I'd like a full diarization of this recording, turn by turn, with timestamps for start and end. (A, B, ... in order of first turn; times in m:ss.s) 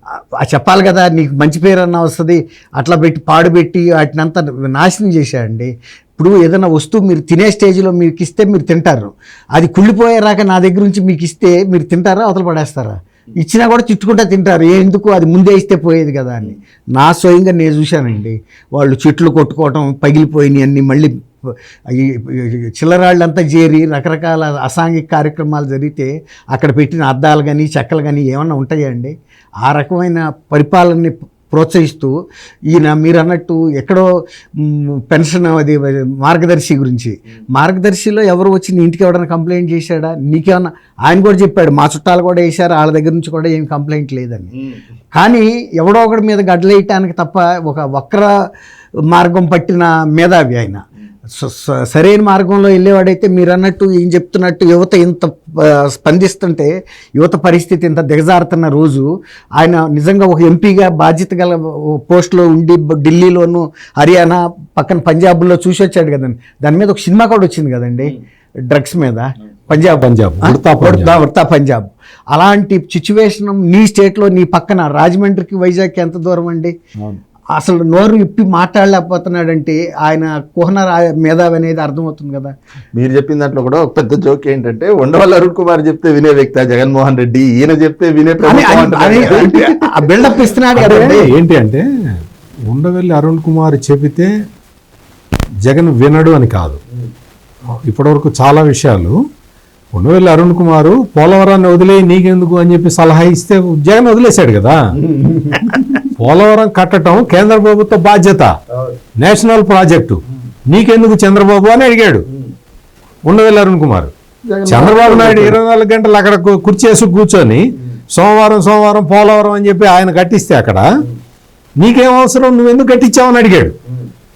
0:00.4-0:29.1 A
0:29.6-0:32.1 A
0:32.7-0:34.0 A
0:34.6-0:44.5 A
0:45.1-0:48.3 A
0:49.1-0:50.8 A
0:51.4-0:59.0 A
0:59.6-1:08.1 A
1:08.7-1:16.7 A
1:09.9-1:11.1 B
1:17.5-1:22.5 A
1:22.9-1:30.1 C
1:28.4-1:31.3 A
1:30.7-1:31.8 B
1:32.7-1:34.3 B
1:35.6-1:36.8 B
1:37.8-1:39.2 B
1:39.9-1:44.8 B
1:45.0-1:46.0 C
1:46.2-1:48.5 B
1:49.2-1:52.2 B
1:53.3-1:54.1 B
1:54.5-1:55.6 C
1:54.7-2:00.8 B
2:01.8-2:03.7 B